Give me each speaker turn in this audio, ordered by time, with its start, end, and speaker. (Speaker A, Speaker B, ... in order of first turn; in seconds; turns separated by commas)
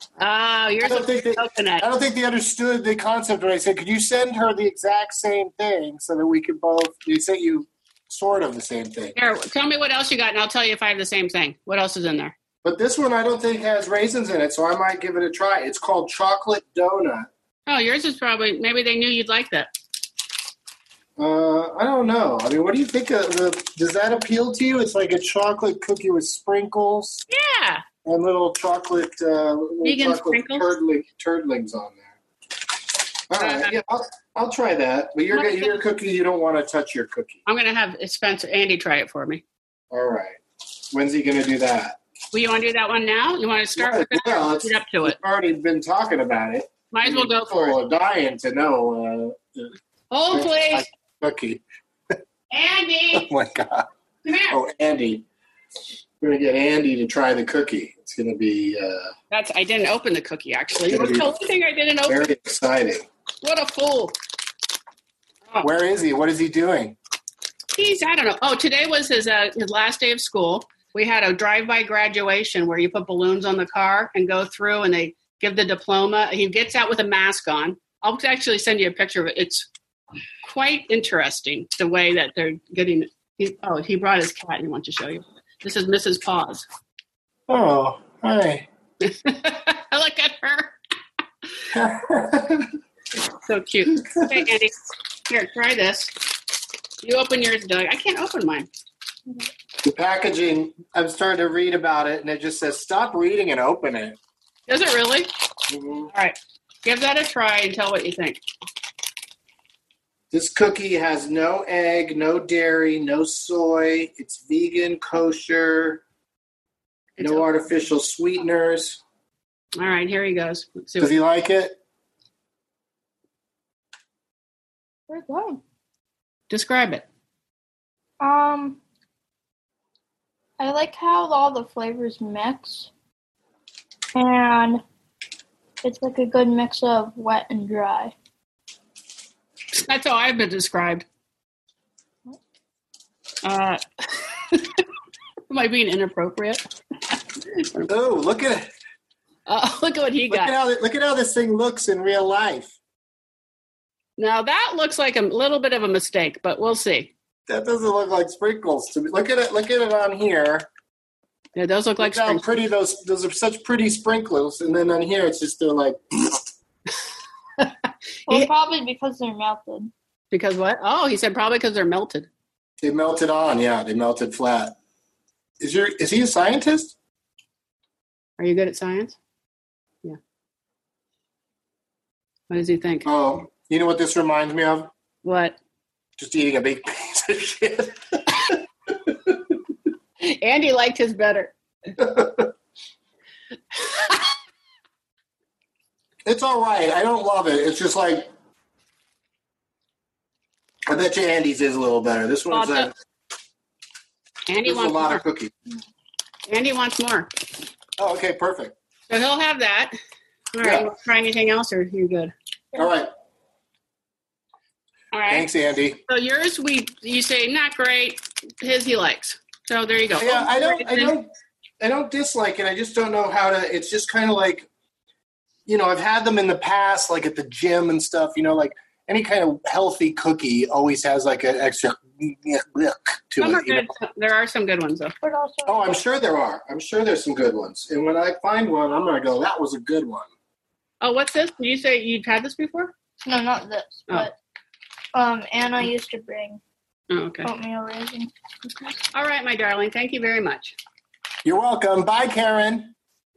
Speaker A: 0.2-1.8, Speaker B: 0.8-9.2, Speaker A: 9.1-12.3, Speaker B: 12.6-17.3, Speaker A: 17.7-19.7, Speaker B: 21.2-27.2, Speaker A: 27.3-27.8, Speaker B: 28.0-32.2, Speaker A: 29.8-30.6, Speaker B: 33.3-37.4, Speaker A: 33.4-33.8, Speaker A: 35.3-35.8, Speaker A: 37.5-39.4, Speaker B: 39.9-40.4, Speaker B: 40.9-42.0, Speaker A: 42.3-45.2, Speaker B: 43.8-49.7, Speaker A: 46.9-47.8, Speaker A: 50.1-50.9, Speaker B: 50.3-51.6, Speaker A: 52.5-53.3, Speaker B: 53.1-53.9, Speaker A: 54.2-54.6, Speaker B: 54.5-55.2, Speaker B: 56.2-59.1, Speaker A: 59.3-62.3, Speaker B: 60.9-61.3, Speaker B: 62.1-63.0, Speaker A: 63.4-64.1, Speaker B: 65.6-67.0, Speaker A: 67.7-79.7, Speaker A: 80.4-86.6, Speaker B: 87.5-88.7, Speaker A: 89.0-90.7, Speaker B: 91.7-92.7, Speaker A: 93.2-96.3, Speaker B: 94.0-94.5, Speaker A: 97.0-98.7, Speaker B: 99.8-104.2, Speaker A: 104.7-105.3, Speaker B: 105.7-106.1, Speaker A: 106.1-108.4, Speaker B: 110.3-116.0, Speaker A: 117.2-117.4, Speaker B: 117.2-119.0, Speaker A: 119.8-121.1, Speaker B: 121.0-121.8, Speaker C: 125.1-125.6, Speaker A: 126.5-127.0, Speaker C: 128.2-128.8, Speaker C: 130.6-132.9, Speaker C: 134.1-134.8, Speaker C: 135.8-138.1, Speaker A: 139.7-141.0, Speaker A: 143.4-144.8, Speaker A: 145.5-147.9, Speaker B: 147.9-148.7, Speaker A: 149.5-150.5, Speaker B: 150.3-152.7, Speaker A: 154.2-157.1, Speaker B: 157.5-160.7, Speaker A: 161.6-162.5, Speaker B: 162.0-166.5, Speaker C: 168.3-169.9, Speaker A: 170.3-172.3, Speaker B: 172.8-174.7, Speaker B: 175.6-176.9, Speaker A: 178.4-179.2, Speaker A: 182.5-183.1, Speaker B: 183.0-184.9, Speaker A: 185.2-185.6, Speaker B: 186.2-189.5, Speaker A: 190.2-191.5, Speaker B: 192.0-192.5, Speaker A: 193.9-194.2, Speaker B: 196.2-198.3, Speaker B: 200.8-202.9, Speaker A: 202.5-202.9, Speaker A: 204.5-205.2, Speaker B: 204.6-205.5, Speaker A: 206.5-207.3, Speaker B: 208.0-208.7, Speaker A: 209.1-209.9, Speaker A: 210.5-212.3, Speaker B: 210.6-210.9, Speaker B: 212.7-213.1, Speaker A: 215.1-215.5, Speaker B: 215.3-216.0, Speaker A: 216.1-221.1, Speaker B: 220.2-221.3, Speaker B: 221.8-224.7, Speaker B: 225.7-233.9, Speaker A: 233.4-235.1, Speaker C: 235.2-236.0, Speaker B: 235.7-240.3, Speaker A: 241.0-242.9, Speaker C: 243.2-244.3, Speaker C: 245.1-246.6, Speaker A: 247.1-247.5, Speaker C: 247.4-248.9, Speaker A: 249.1-250.8, Speaker B: 251.4-252.9